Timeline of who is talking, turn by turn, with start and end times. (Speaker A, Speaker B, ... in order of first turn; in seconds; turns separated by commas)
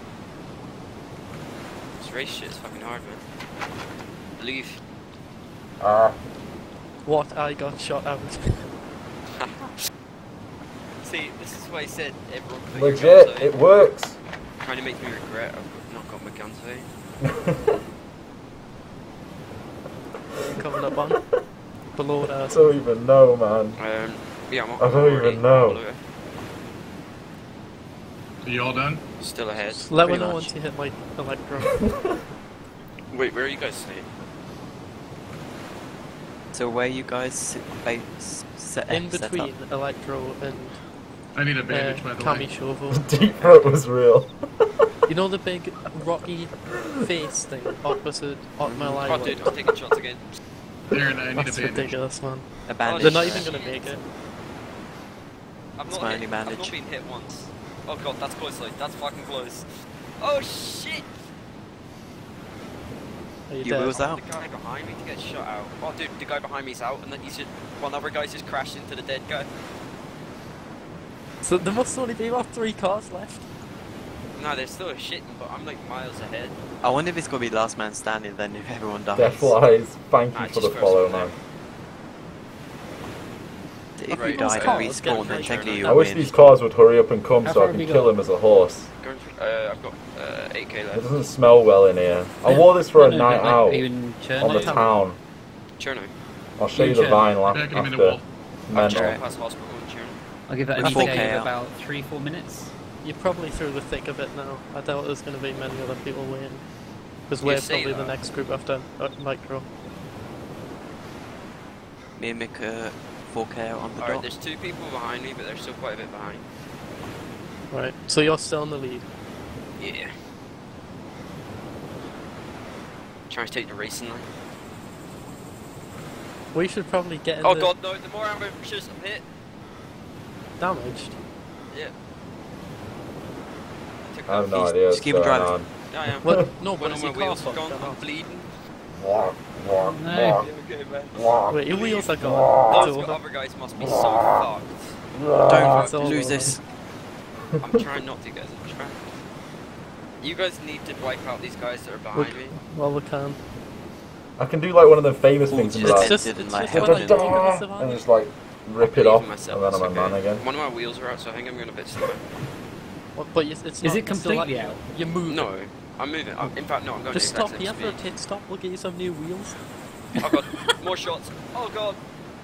Speaker A: 2.0-3.2, Speaker A: 4.4-4.8, Speaker B: 5.8-6.2, Speaker C: 7.0-8.7, Speaker A: 9.4-9.7, Speaker A: 11.0-13.5, Speaker B: 12.7-14.2, Speaker A: 14.6-16.9, Speaker B: 17.2-17.8, Speaker B: 20.4-20.9, Speaker C: 20.5-21.2, Speaker C: 21.9-22.7, Speaker B: 22.4-23.8, Speaker A: 23.8-26.0, Speaker B: 24.8-25.8, Speaker D: 28.4-29.0, Speaker A: 29.2-30.0, Speaker C: 29.6-31.8, Speaker E: 30.0-30.5, Speaker B: 31.8-32.2, Speaker A: 33.1-34.1, Speaker E: 36.5-39.5, Speaker C: 38.9-40.8, Speaker D: 41.3-42.5, Speaker C: 41.7-43.0, Speaker B: 42.9-44.9, Speaker E: 43.4-43.7, Speaker C: 45.1-49.5, Speaker E: 48.7-49.0, Speaker A: 49.1-50.2, Speaker D: 50.9-51.9, Speaker C: 51.4-54.0, Speaker E: 52.7-53.5, Speaker A: 52.8-53.9, Speaker A: 55.8-59.7, Speaker E: 55.9-56.8, Speaker A: 60.2-61.2, Speaker C: 63.5-63.9, Speaker E: 63.6-64.2, Speaker A: 63.9-69.5, Speaker C: 71.4-73.5, Speaker A: 74.4-76.6, Speaker E: 76.8-79.6, Speaker B: 79.2-81.3, Speaker A: 80.3-81.3, Speaker E: 84.0-86.3, Speaker A: 84.1-86.0, Speaker C: 84.1-86.4, Speaker B: 85.9-88.9, Speaker F: 87.4-88.1, Speaker A: 89.0-91.1, Speaker B: 90.9-95.2, Speaker F: 92.5-94.8, Speaker C: 94.4-94.9, Speaker A: 95.8-96.1, Speaker B: 96.6-99.2, Speaker F: 96.8-97.4, Speaker D: 97.5-98.3, Speaker A: 98.7-100.2, Speaker E: 98.8-99.2, Speaker F: 100.5-102.7, Speaker E: 100.8-101.5, Speaker C: 103.0-106.7, Speaker C: 107.3-109.7, Speaker A: 107.4-108.2, Speaker E: 112.2-114.3, Speaker A: 114.0-116.4, Speaker C: 117.7-119.0, Speaker A: 119.8-120.1, Speaker A: 123.3-124.3, Speaker C: 126.5-127.7, Speaker A: 127.4-129.2, Speaker C: 130.6-131.2, Speaker A: 134.0-134.7, Speaker B: 134.3-136.3, Speaker E: 134.5-135.6, Speaker A: 135.9-138.6, Speaker C: 136.2-138.0, Speaker B: 139.0-140.4, Speaker F: 139.8-140.5, Speaker A: 140.3-142.1, Speaker B: 141.2-141.5, Speaker C: 141.5-143.2, Speaker B: 142.2-142.9, Speaker A: 142.7-145.0, Speaker B: 143.8-144.4, Speaker E: 145.4-146.6, Speaker A: 145.7-146.3, Speaker C: 145.7-146.6, Speaker A: 147.6-149.1, Speaker A: 150.2-152.6, Speaker C: 152.1-153.4, Speaker B: 154.4-160.5, Speaker E: 155.5-157.4, Speaker C: 155.8-158.0, Speaker A: 158.8-162.2, Speaker C: 163.2-165.5, Speaker F: 163.8-164.8, Speaker A: 165.3-168.0, Speaker C: 167.1-169.6, Speaker F: 170.2-170.8, Speaker A: 170.2-172.0